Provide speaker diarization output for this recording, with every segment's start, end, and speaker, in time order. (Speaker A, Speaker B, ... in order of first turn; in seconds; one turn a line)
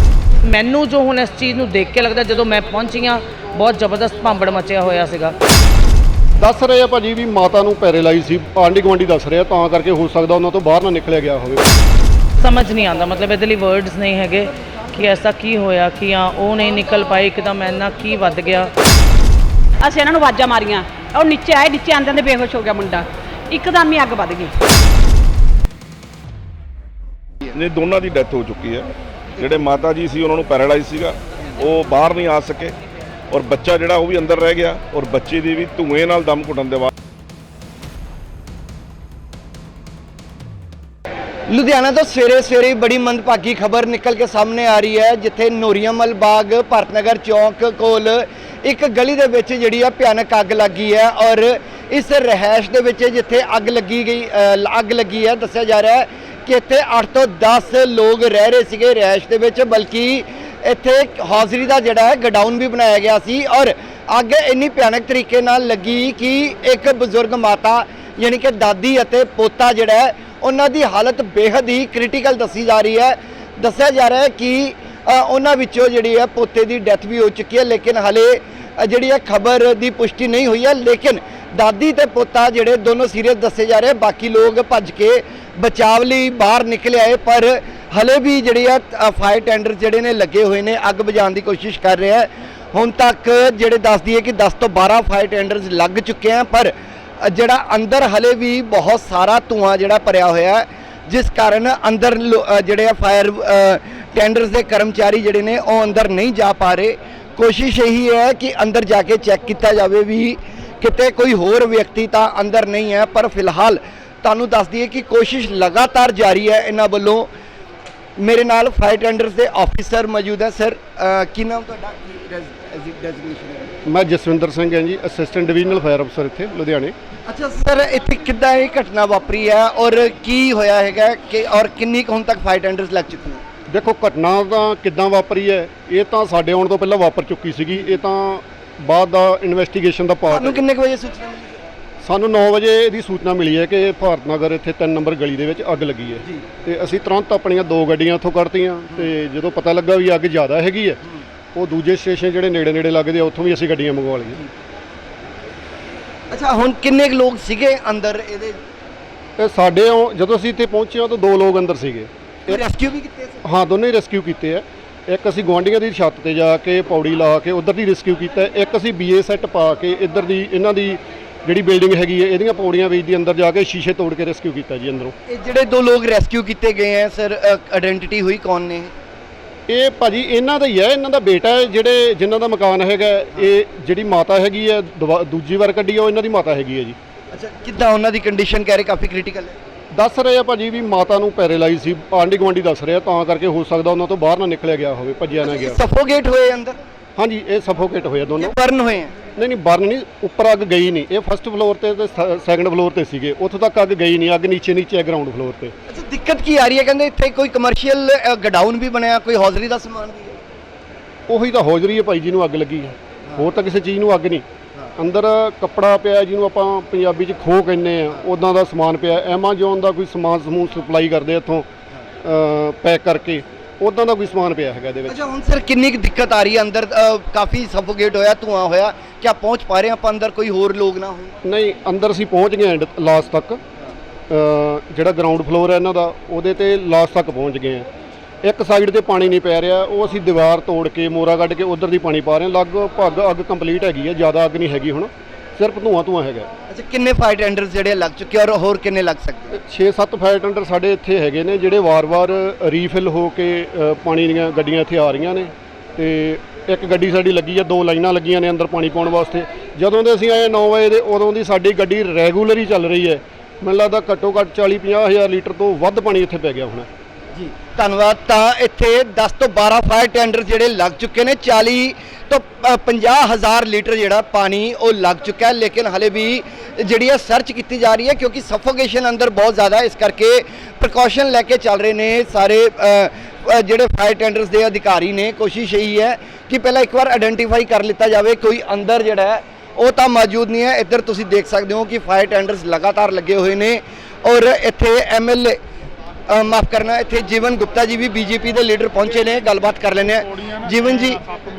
Speaker A: 0.5-5.4
Speaker B: 6.4-11.7
Speaker A: 12.4-18.7
Speaker C: 19.8-24.5
Speaker D: 27.5-28.9
Speaker D: 29.4-32.7
Speaker D: 33.3-36.9
Speaker E: 41.5-117.3
Speaker E: 118.2-123.7
Speaker B: 123.8-127.0
Speaker E: 127.3-133.4
Speaker B: 133.7-140.6
Speaker E: 140.3-141.6
Speaker B: 142.0-151.0
Speaker B: 151.6-154.4
Speaker E: 156.3-158.6
Speaker B: 159.4-162.6
Speaker E: 162.5-163.4
Speaker B: 163.4-175.2
Speaker E: 175.3-178.9
Speaker B: 179.7-187.0
Speaker E: 187.3-189.6
Speaker B: 189.9-195.8
Speaker E: 195.4-196.8
Speaker B: 197.2-198.6
Speaker E: 198.4-199.2
Speaker B: 199.4-205.7
Speaker E: 205.9-210.4
Speaker B: 211.3-214.4
Speaker B: 215.0-221.7
Speaker B: 222.2-225.2
Speaker E: 225.1-231.3
Speaker B: 231.4-233.6
Speaker B: 234.3-237.9
Speaker B: 238.4-246.5
Speaker E: 246.7-249.6
Speaker B: 249.6-266.9
Speaker E: 267.4-295.6
Speaker E: 296.3-301.2